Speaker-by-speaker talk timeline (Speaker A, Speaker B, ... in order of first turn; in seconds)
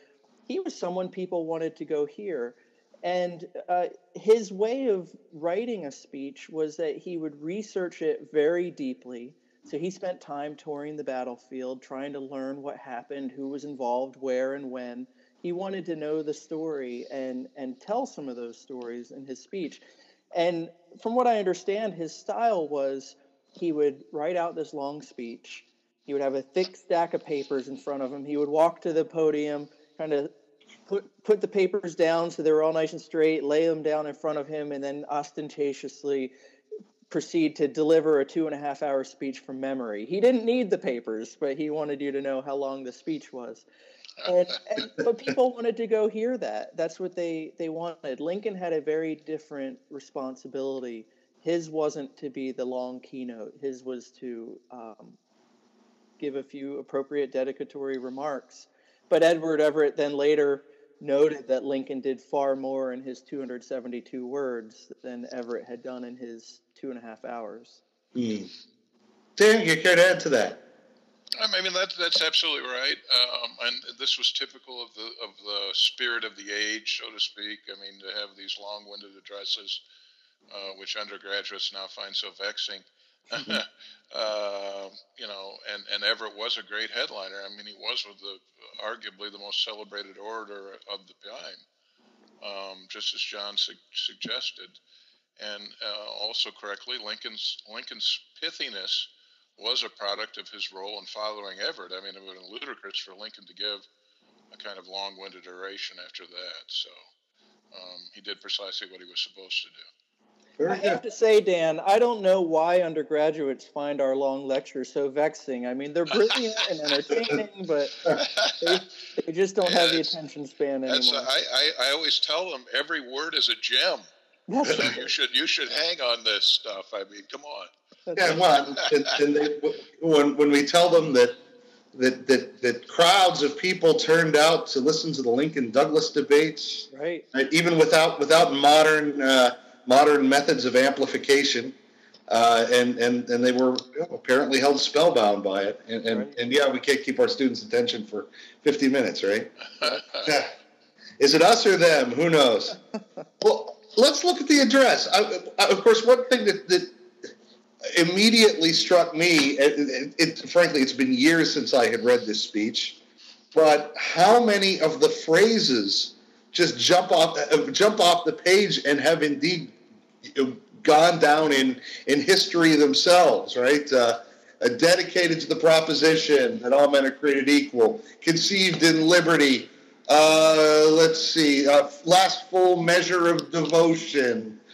Speaker A: 0.5-30.3, 30.9-36.3, 37.1-43.6, 44.2-55.2, 56.2-67.8, 110.7-121.3, 124.5-125.0, 128.1-128.3, 136.9-137.2, 146.1-146.3
Speaker B: 68.1-68.5, 69.4-70.6, 110.6-111.0, 128.1-131.4, 131.9-141.7, 142.3-150.5, 151.2-152.8, 153.4-156.9, 157.8-163.0, 163.5-169.7, 170.2-184.6
Speaker C: 71.4-79.8, 80.5-91.6, 92.4-94.8, 95.4-103.8, 104.5-106.9, 107.7-109.8, 118.1-118.8, 119.6-120.1, 120.9-124.1, 124.6-127.7, 149.8-150.2